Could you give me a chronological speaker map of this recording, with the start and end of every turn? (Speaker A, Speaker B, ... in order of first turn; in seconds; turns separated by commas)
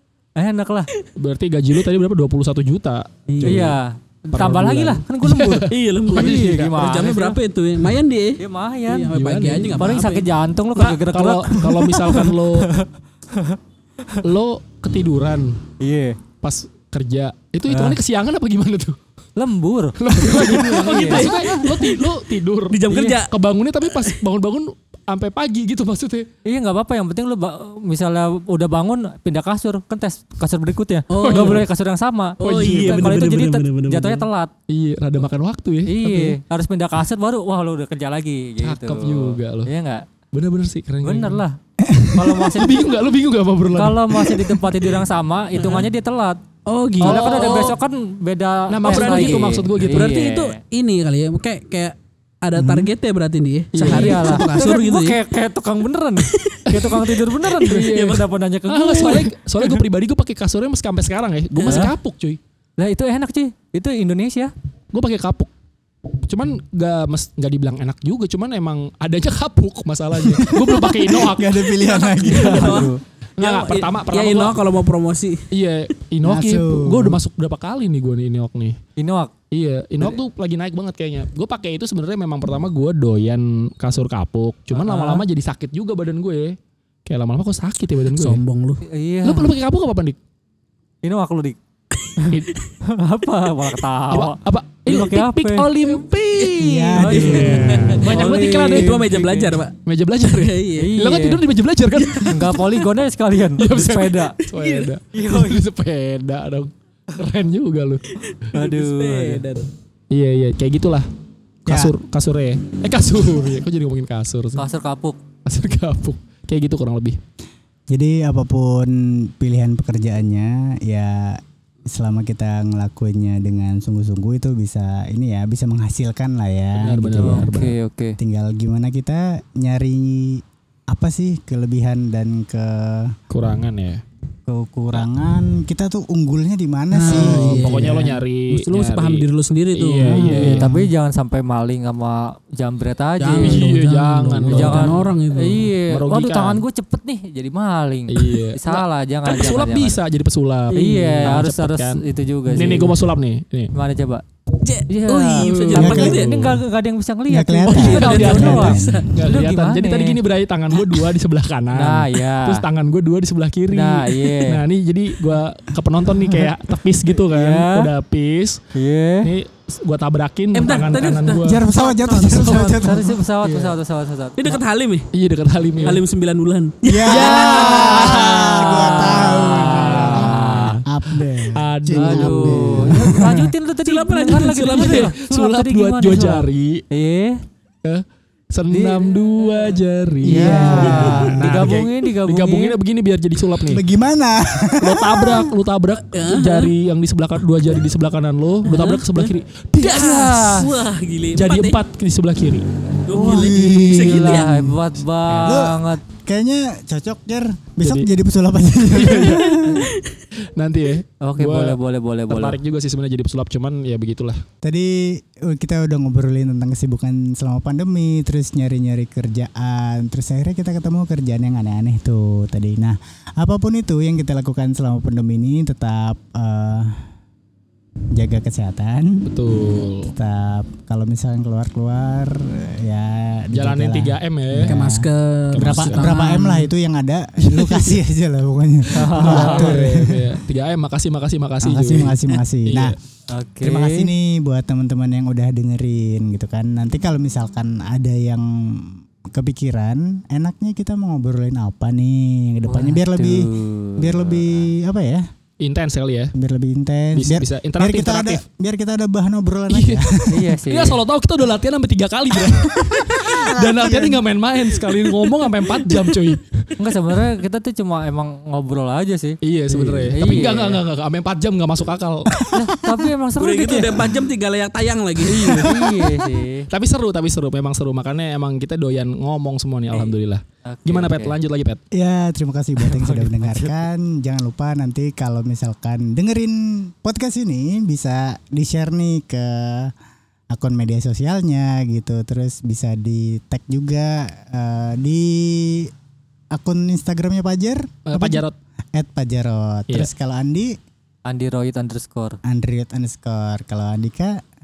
Speaker A: 0.3-0.9, Speaker B: 1.1-3.7, Speaker C: 3.3-3.7, Speaker A: 3.4-7.4, Speaker B: 4.3-6.7, Speaker C: 5.7-10.2, Speaker A: 8.4-9.1, Speaker B: 9.1-9.7, Speaker A: 9.7-14.2, Speaker B: 10.8-12.7, Speaker B: 14.2-15.6, Speaker A: 15.8-16.2, Speaker B: 16.4-19.0, Speaker A: 17.7-18.0, Speaker A: 19.4-21.3, Speaker B: 20.0-26.3, Speaker C: 20.2-22.1, Speaker C: 22.7-23.3, Speaker C: 23.9-24.1, Speaker A: 26.4-34.5, Speaker C: 31.1-31.6, Speaker B: 31.2-31.6, Speaker C: 32.4-34.3, Speaker B: 32.4-33.2, Speaker B: 34.7-36.2, Speaker A: 35.9-40.1, Speaker B: 38.6-39.7, Speaker B: 40.3-41.4, Speaker A: 41.0-42.8, Speaker D: 41.8-42.6, Speaker B: 42.4-44.6, Speaker A: 43.8-46.4, Speaker C: 45.6-45.9, Speaker C: 46.6-47.5, Speaker A: 47.0-50.6, Speaker B: 47.0-47.8, Speaker B: 48.7-50.1, Speaker C: 48.8-55.2, Speaker D: 52.5-52.9, Speaker B: 53.7-54.4, Speaker A: 53.8-59.3, Speaker C: 56.2-58.3, Speaker B: 57.6-62.4, Speaker C: 61.5-61.9, Speaker A: 61.6-61.9, Speaker A: 62.8-64.5, Speaker B: 64.9-65.5, Speaker B: 66.2-71.7, Speaker D: 70.2-72.9, Speaker C: 71.6-75.5, Speaker A: 72.2-73.0, Speaker B: 73.4-74.5, Speaker B: 75.5-78.8, Speaker D: 76.2-77.2, Speaker A: 79.0-79.3, Speaker B: 79.5-88.4, Speaker A: 84.7-85.2, Speaker C: 88.1-88.8, Speaker A: 88.8-89.5, Speaker B: 89.2-90.2, Speaker A: 91.0-91.5, Speaker A: 92.2-95.7, Speaker B: 94.1-99.1, Speaker D: 96.6-97.9, Speaker A: 97.0-99.6, Speaker C: 97.1-99.7, Speaker B: 99.8-102.4, Speaker C: 100.2-100.9, Speaker A: 100.8-101.4, Speaker C: 102.0-102.5, Speaker A: 102.2-104.4, Speaker B: 103.6-108.0, Speaker C: 104.4-104.9, Speaker A: 105.1-105.6, Speaker C: 108.2-109.7, Speaker A: 108.5-109.4, Speaker B: 110.1-111.1, Speaker B: 111.6-114.6, Speaker D: 111.7-111.9, Speaker A: 114.6-115.2, Speaker B: 115.5-117.2, Speaker D: 117.9-127.6, Speaker B: 126.8-127.7, Speaker A: 127.2-128.2, Speaker D: 128.2-133.2, Speaker B: 133.3-134.0, Speaker D: 134.5-138.1, Speaker C: 136.9-140.4, Speaker B: 137.0-140.6, Speaker D: 140.2-140.9, Speaker A: 140.3-143.6, Speaker C: 143.2-145.7, Speaker B: 143.4-145.0, Speaker A: 144.5-150.0, Speaker B: 145.9-146.6, Speaker B: 148.1-153.7, Speaker C: 150.7-151.3, Speaker A: 150.7-153.0, Speaker A: 153.7-154.2, Speaker C: 154.6-156.3, Speaker A: 154.9-160.2, Speaker B: 155.4-156.5, Speaker D: 155.7-156.3, Speaker D: 157.3-159.2, Speaker C: 157.7-159.1, Speaker B: 157.7-168.6, Speaker C: 160.8-161.1, Speaker A: 161.7-162.7, Speaker A: 163.7-164.6, Speaker A: 167.3-167.9, Speaker A: 168.7-169.3, Speaker B: 169.2-171.6, Speaker C: 170.5-173.1, Speaker D: 171.3-173.2, Speaker B: 172.2-172.8, Speaker A: 172.8-174.6, Speaker B: 173.4-173.7, Speaker C: 174.4-175.1, Speaker B: 175.1-176.0, Speaker C: 175.8-178.2, Speaker D: 176.8-183.5, Speaker B: 177.1-180.8, Speaker A: 177.6-180.8, Speaker B: 181.4-183.1, Speaker A: 181.9-187.4, Speaker C: 183.8-185.2, Speaker B: 184.7-186.8, Speaker B: 187.8-193.8, Speaker A: 188.7-189.1, Speaker A: 190.2-192.8, Speaker D: 190.2-191.4, Speaker D: 193.6-195.5, Speaker B: 194.8-200.7, Speaker C: 196.0-196.7, Speaker A: 198.7-199.0, Speaker C: 198.7-201.8, Speaker A: 199.9-200.3, Speaker B: 201.3-202.7, Speaker C: 203.1-204.5, Speaker D: 203.1-209.9, Speaker A: 203.2-206.0, Speaker B: 203.9-204.5, Speaker B: 205.3-205.6, Speaker B: 207.8-208.1, Speaker B: 208.9-209.8, Speaker C: 209.7-210.2, Speaker B: 210.4-211.8, Speaker A: 211.2-212.6, Speaker B: 212.3-214.4, Speaker D: 214.6-227.0, Speaker D: 228.1-229.3, Speaker B: 229.3-230.1, Speaker D: 230.1-240.4, Speaker B: 233.5-234.8, Speaker C: 234.6-236.7, Speaker B: 235.5-236.2, Speaker B: 237.4-238.0, Speaker A: 238.9-239.8, Speaker B: 239.1-242.9, Speaker D: 241.6-242.9, Speaker A: 243.3-244.1, Speaker D: 243.6-255.2, Speaker A: 252.7-254.3, Speaker B: 255.6-256.3, Speaker D: 256.3-260.5, Speaker B: 257.1-258.4, Speaker B: 259.7-266.7, Speaker A: 260.3-261.0, Speaker D: 262.5-264.2, Speaker A: 266.8-270.8, Speaker B: 269.4-272.3, Speaker D: 272.3-273.1, Speaker A: 272.5-274.0, Speaker C: 273.4-275.8, Speaker B: 275.2-276.0, Speaker A: 275.5-276.7, Speaker B: 276.7-281.8, Speaker A: 280.6-281.3, Speaker D: 281.9-289.9, Speaker A: 282.8-283.7, Speaker D: 290.5-295.9, Speaker D: 296.5-300.8, Speaker B: 298.1-298.5, Speaker A: 301.2-302.4, Speaker D: 302.4-304.4